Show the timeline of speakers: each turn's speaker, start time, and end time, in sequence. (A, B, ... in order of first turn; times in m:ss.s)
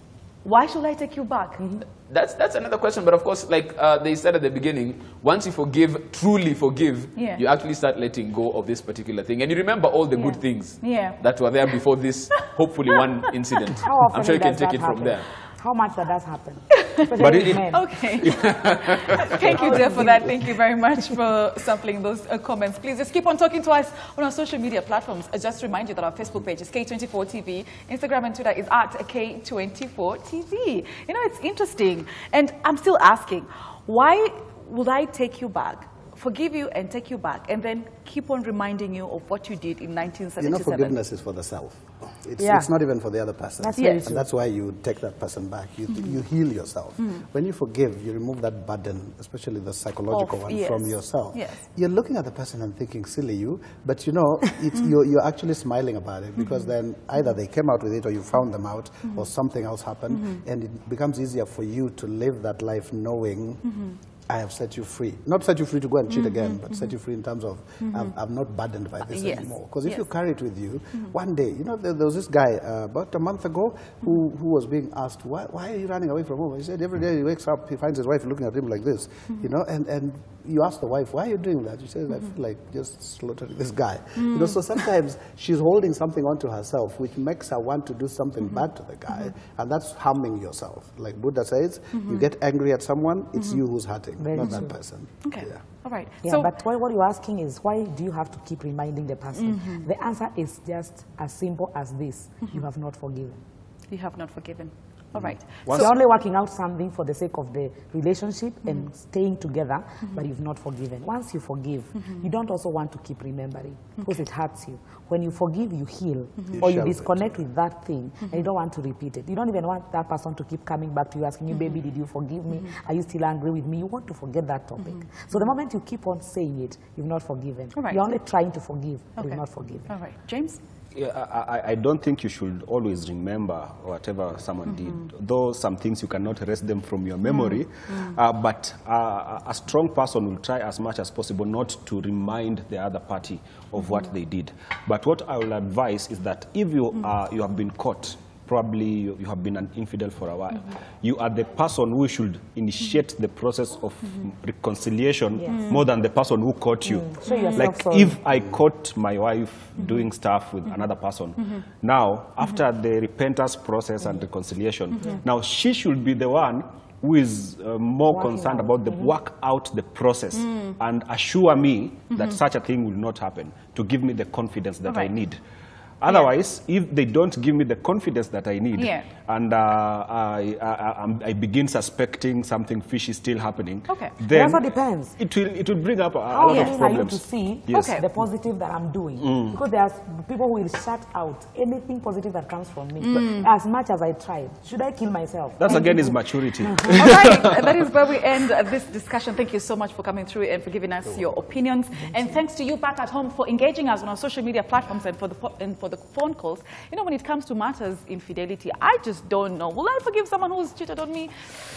0:00.4-0:01.6 A
0:02.1-0:15.3 B
0:07.2-0:07.4 A
0:10.1-0:11.2 A
0:12.9-0:13.3 A
0:13.8-0:18.0 C
0:16.7-0:41.0 A
0:17.2-0:19.8 D
0:19.5-0:20.4 C
0:40.4-1:35.6 E
0:42.4-0:42.7 C
0:43.6-0:44.3 C
0:43.8-0:44.0 A
0:50.1-0:51.6 A
1:09.1-1:10.0 A
1:34.2-1:34.8 C
1:35.2-1:36.5 A
1:36.2-1:43.4 C
1:39.4-1:39.8 A
1:43.9-1:45.9 A
1:45.7-2:09.9 C
1:56.5-1:57.4 E
2:07.8-2:08.0 A
2:09.2-2:10.6 A
2:11.0-2:55.4 D
2:17.3-2:17.6 A
2:35.4-2:35.8 C
2:36.8-2:38.2 C
2:37.3-2:37.6 A
2:45.0-2:45.2 C
2:48.1-2:49.1 C
2:54.9-2:55.1 A
2:56.0-3:08.2 D
2:58.8-2:59.1 A
3:03.9-3:04.2 A
3:04.2-3:05.2 C
3:06.3-3:17.1 C
3:06.5-3:06.8 A
3:07.7-3:08.0 A
3:09.2-3:09.6 D
3:13.0-3:13.5 A
3:15.6-3:17.8 D
3:16.9-3:31.5 A